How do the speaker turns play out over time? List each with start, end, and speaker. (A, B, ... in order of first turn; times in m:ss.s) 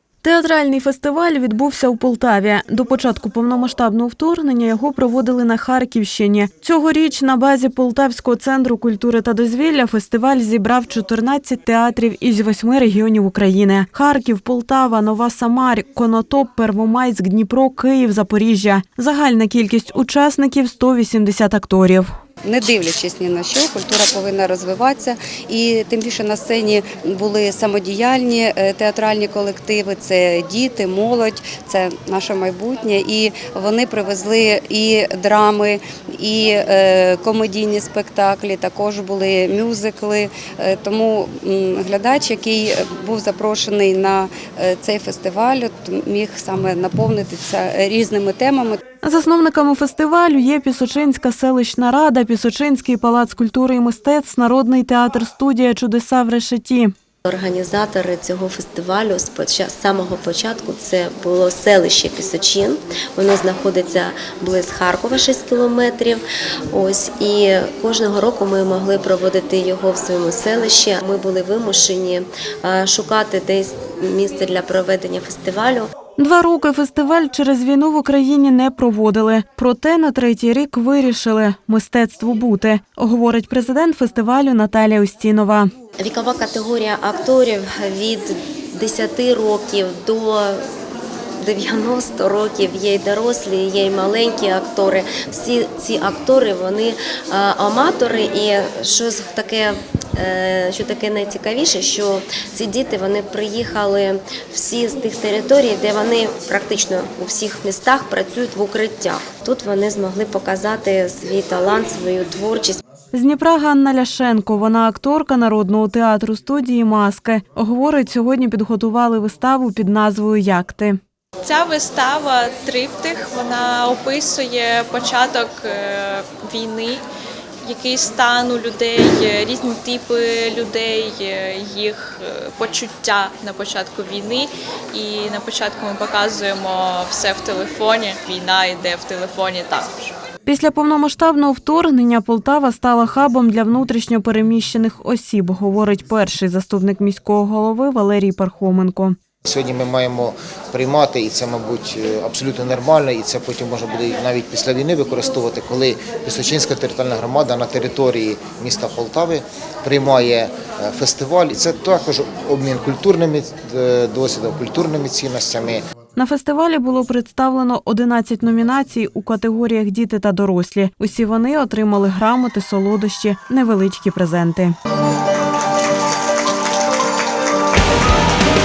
0:00.2-0:22.1 A
0:22.4-0:48.8 B
0:49.0-0:56.9 A
0:57.2-1:15.9 C
1:16.2-1:25.7 A
1:26.0-1:30.6 C
1:31.4-1:52.8 C
1:53.1-2:01.0 A
2:01.4-2:07.0 D
2:07.6-2:20.1 D
2:20.4-2:29.2 A
2:29.4-2:45.8 E
2:46.2-2:54.7 A